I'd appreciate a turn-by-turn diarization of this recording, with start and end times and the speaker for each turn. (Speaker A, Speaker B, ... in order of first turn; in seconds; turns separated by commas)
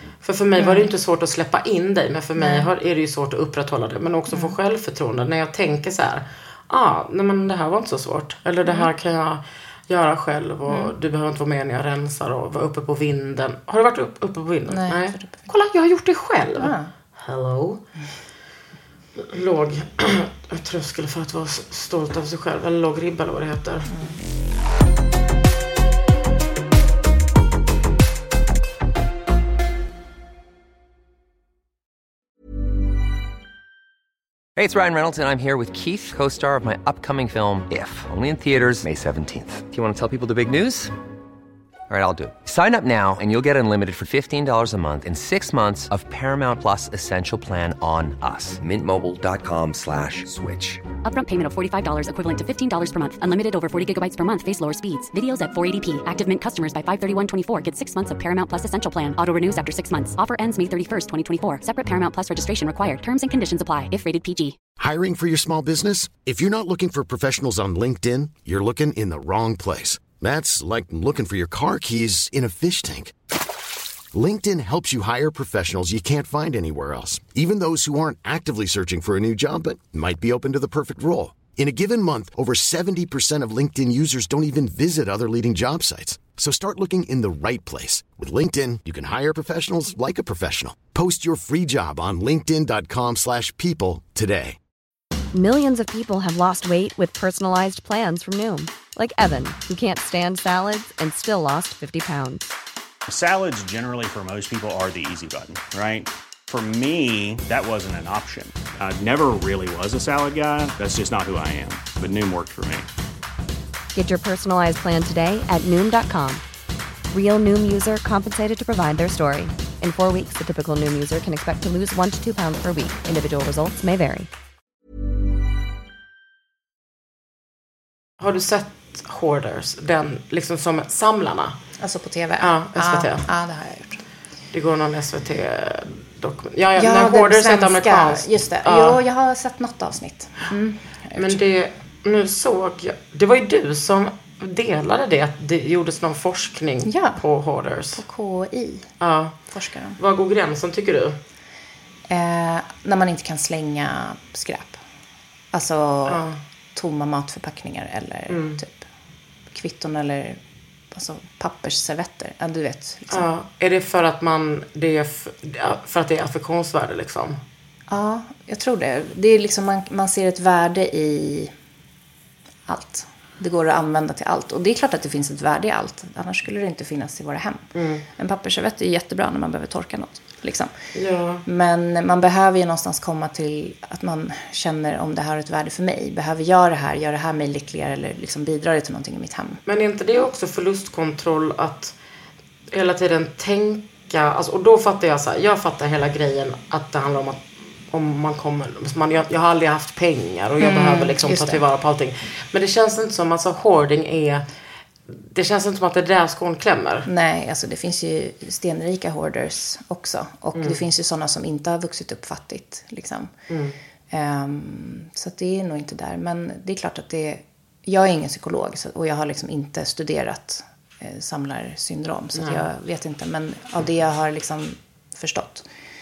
Speaker A: 0.2-17.8, Speaker B: 0.6-0.9, Speaker B: 2.4-2.7, Speaker B: 14.7-15.5, Speaker B: 16.6-16.9, Speaker A: 19.2-23.9, Speaker B: 23.9-24.2, Speaker C: 34.5-40.9, Speaker C: 41.9-50.8, Speaker D: 51.0-64.6, Speaker E: 64.8-73.1, Speaker E: 74.1-94.6, Speaker F: 95.3-102.4, Speaker G: 103.1-112.9, Speaker F: 113.9-116.4, Speaker F: 117.1-124.3, Speaker A: 128.2-131.6, Speaker B: 131.8-134.0, Speaker A: 132.4-133.3, Speaker A: 134.5-139.0, Speaker B: 136.8-141.4, Speaker A: 141.2-148.0, Speaker B: 146.8-147.2, Speaker B: 147.9-148.9, Speaker A: 149.0-149.4, Speaker B: 149.5-150.0, Speaker A: 150.0-151.2, Speaker B: 152.1-154.8, Speaker B: 155.5-156.2, Speaker A: 156.1-156.4, Speaker B: 156.7-158.8, Speaker A: 158.3-158.6, Speaker B: 159.5-160.4, Speaker B: 160.9-163.3, Speaker A: 163.1-167.4, Speaker B: 167.9-171.5, Speaker B: 172.7-180.7, Speaker A: 177.7-178.1, Speaker A: 180.9-181.4, Speaker B: 181.4-189.6, Speaker A: 189.7-191.9, Speaker A: 192.7-204.4, Speaker B: 200.6-201.6, Speaker A: 205.1-207.1, Speaker B: 207.1-213.3, Speaker A: 213.5-213.8, Speaker B: 214.1-225.7, Speaker A: 222.3-222.6